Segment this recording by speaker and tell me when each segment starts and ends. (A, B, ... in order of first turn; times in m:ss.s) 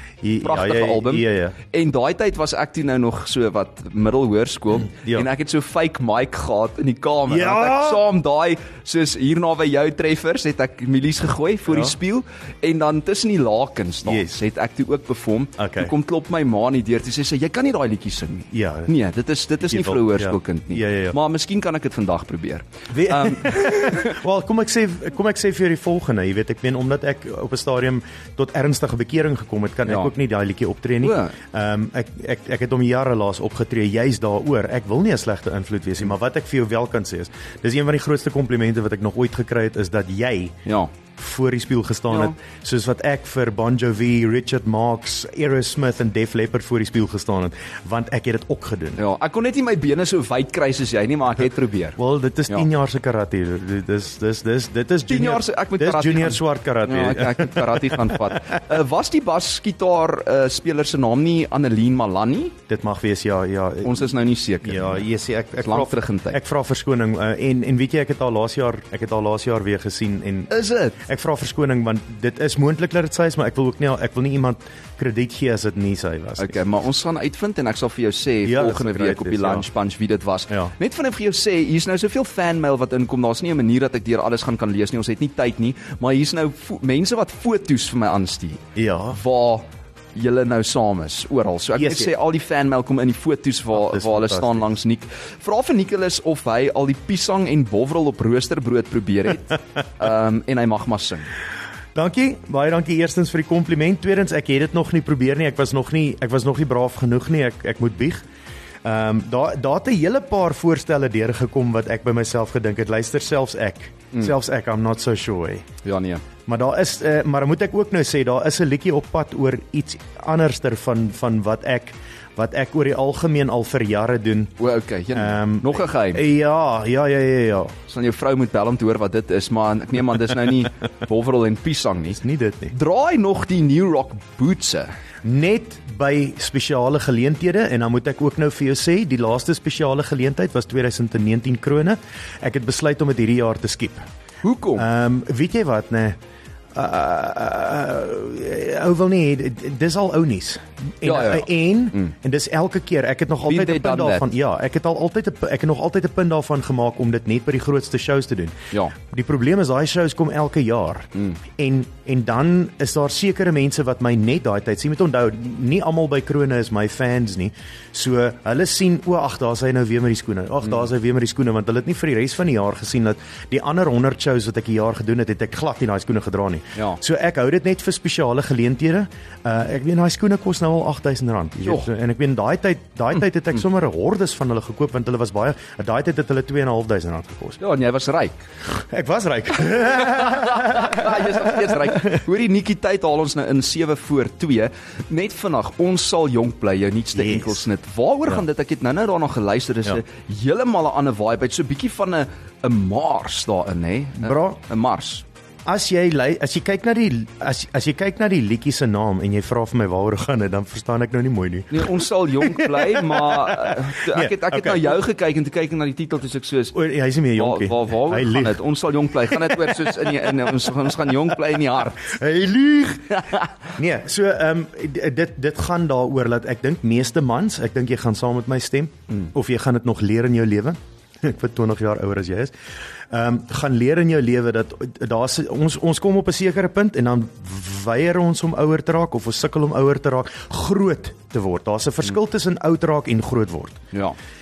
0:00.2-0:01.6 A
0:00.4-0:24.2 B
0:04.9-0:05.3 A
0:07.3-0:08.1 A
0:11.7-0:12.0 A
0:14.0-0:14.4 A
0:15.6-0:15.9 A
0:18.5-0:18.9 A
0:19.7-0:21.2 A
0:22.9-0:40.6 A
0:29.9-0:30.1 B
0:31.0-0:31.4 B
0:40.7-0:40.9 B
0:41.2-0:49.0 A
0:42.1-0:42.4 B
0:49.0-0:52.7 B
0:52.0-0:58.3 A
0:55.1-1:02.6 B
1:02.7-1:04.1 A
1:03.8-1:05.1 B
1:04.6-1:16.6 A
1:05.6-1:06.4 B
1:10.5-1:11.0 B
1:16.4-1:41.3 B
1:18.4-1:19.7 A
1:28.8-1:29.2 A
1:31.8-1:32.1 A
1:33.8-1:34.7 A
1:42.0-1:48.2 A
1:48.8-1:55.7 A
1:55.8-1:56.2 B
1:56.5-2:04.5 A
2:04.6-2:06.3 B
2:05.1-2:07.8 A
2:07.9-2:14.9 B
2:12.2-2:12.7 A
2:15.2-2:24.1 A
2:24.4-2:24.9 B
2:24.8-2:26.2 A
2:26.7-3:07.6 A
2:31.0-2:32.1 B
2:33.5-2:34.3 B
2:56.8-2:57.0 B
3:07.6-3:08.4 B
3:08.7-3:12.2 A
3:10.0-3:25.2 B
3:17.2-3:17.6 A
3:24.2-3:24.6 A
3:25.7-3:35.0 A
3:31.7-3:36.8 B
3:36.7-3:38.6 A
3:37.3-3:42.1 B
3:39.3-3:39.8 A
3:42.0-3:52.5 A
3:43.2-3:43.5 B
3:53.1-4:03.8 A